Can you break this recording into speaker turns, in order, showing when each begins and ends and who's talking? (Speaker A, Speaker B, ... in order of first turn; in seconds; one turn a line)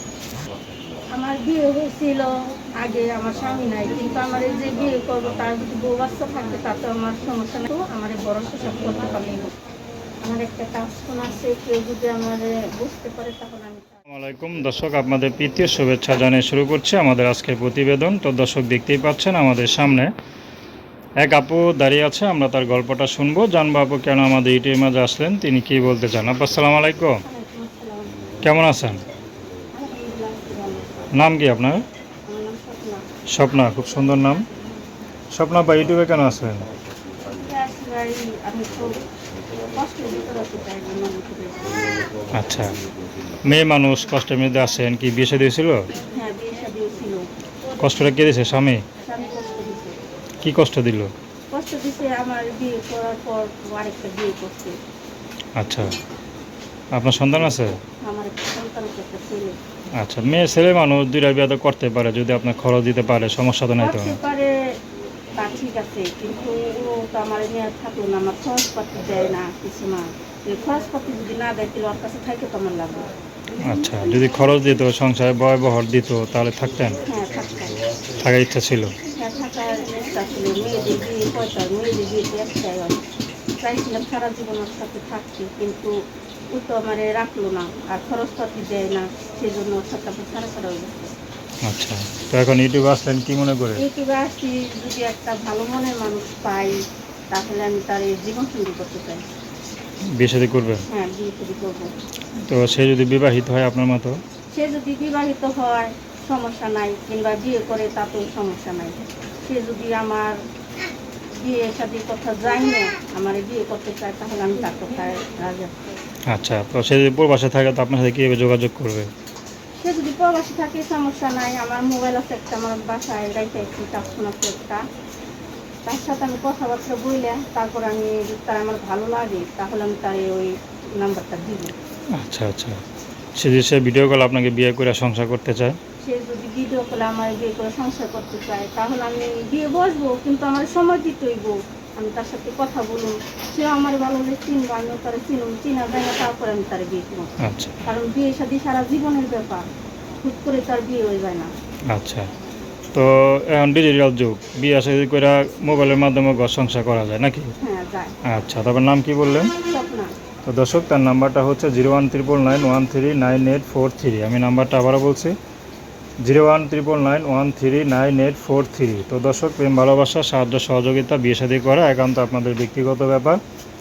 Speaker A: 1.1-9.6
Speaker A: 10.2-14.0
Speaker B: 14.1-20.1
Speaker B: 21.2-27.2
Speaker A: 27.2-28.3
Speaker B: 28.4-29.0
Speaker A: 29.7-31.2
Speaker B: 31.1-31.8
Speaker A: 32.3-33.0
Speaker B: 33.3-34.5
Speaker B: 35.3-36.7
Speaker A: 37.2-39.0
Speaker A: 39.6-41.8
Speaker B: 42.3-42.8
Speaker B: 43.5-45.9
Speaker A: 46.0-47.3
Speaker B: 47.8-48.8
Speaker A: 49.0-50.0
Speaker B: 50.4-51.1
Speaker A: 51.5-54.8
Speaker B: 55.5-56.0
Speaker B: 56.9-57.8
Speaker A: 58.0-59.6
Speaker B: 60.0-64.2
Speaker A: 63.8-64.6
Speaker A: 65.3-73.1
Speaker B: 73.6-77.0
Speaker A: 77.0-77.8
Speaker B: 78.2-78.9
Speaker A: 79.0-83.0
Speaker A: 83.6-85.9
Speaker A: 86.5-91.1
Speaker B: 91.6-93.8
Speaker A: 93.8-96.8
Speaker A: 97.3-99.2
Speaker B: 100.2-100.8
Speaker A: 100.9-101.9
Speaker B: 102.4-104.2
Speaker A: 104.5-110.4
Speaker A: 111.3-115.9
Speaker B: 116.3-119.1
Speaker A: 119.8-124.8
Speaker A: 125.8-131.7
Speaker B: 132.1-132.8
Speaker B: 133.4-135.8
Speaker A: 136.0-147.3
Speaker B: 147.4-147.8
Speaker A: 147.8-149.7
Speaker A: 150.2-151.5
Speaker B: 151.9-152.3
Speaker B: 152.9-157.5
Speaker A: 157.6-158.2
Speaker B: 158.2-159.5
Speaker A: 159.6-160.1
Speaker B: 160.4-165.3
Speaker B: 166.2-173.4